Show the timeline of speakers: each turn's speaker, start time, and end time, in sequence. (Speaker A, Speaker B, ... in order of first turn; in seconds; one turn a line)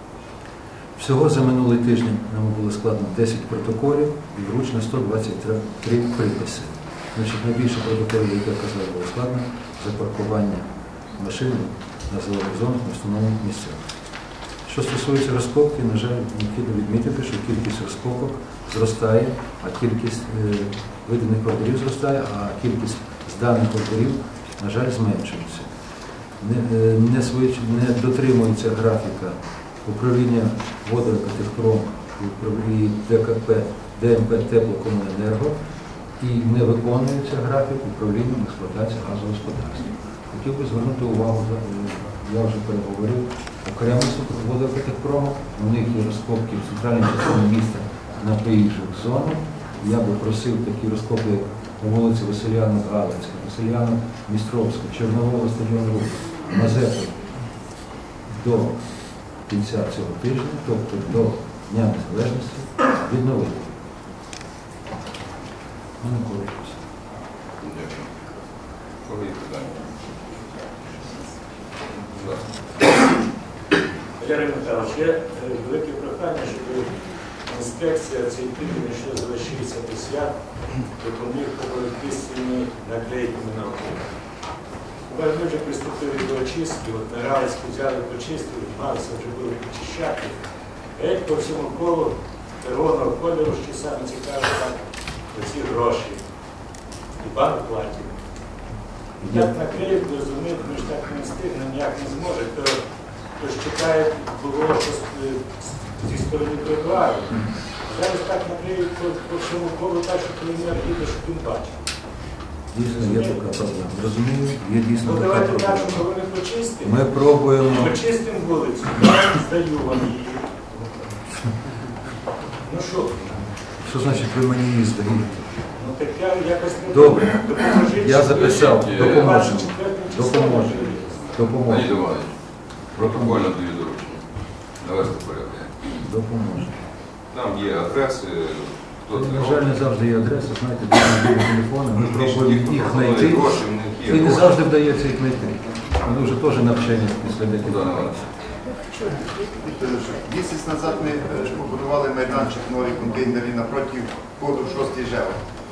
Speaker A: 0.9-13.8
Speaker A: 14.6-25.7
Speaker A: 26.4-35.5
Speaker A: 36.2-57.3
Speaker A: 58.3-63.8
Speaker A: 66.0-66.8
Speaker B: 67.6-68.1
Speaker B: 69.0-70.2
Speaker B: 72.1-72.7
Speaker C: 74.2-84.1
Speaker C: 85.1-90.3
Speaker C: 91.0-94.8
Speaker C: 95.3-96.2
Speaker C: 97.2-98.2
Speaker C: 99.2-102.8
Speaker A: 99.2-99.5
Speaker C: 103.3-111.8
Speaker A: 112.7-116.1
Speaker C: 112.9-113.4
Speaker C: 115.0-117.1
Speaker A: 116.8-118.0
Speaker C: 117.6-120.9
Speaker C: 122.6-123.3
Speaker A: 123.8-125.5
Speaker C: 125.7-131.3
Speaker A: 126.9-132.2
Speaker B: 128.3-129.3
Speaker B: 131.1-132.3
Speaker B: 132.9-135.7
Speaker A: 132.9-133.4
Speaker A: 136.0-136.8
Speaker B: 137.3-139.7
Speaker A: 139.1-148.1
Speaker B: 142.0-144.5
Speaker B: 147.6-148.2
Speaker D: 149.6-155.4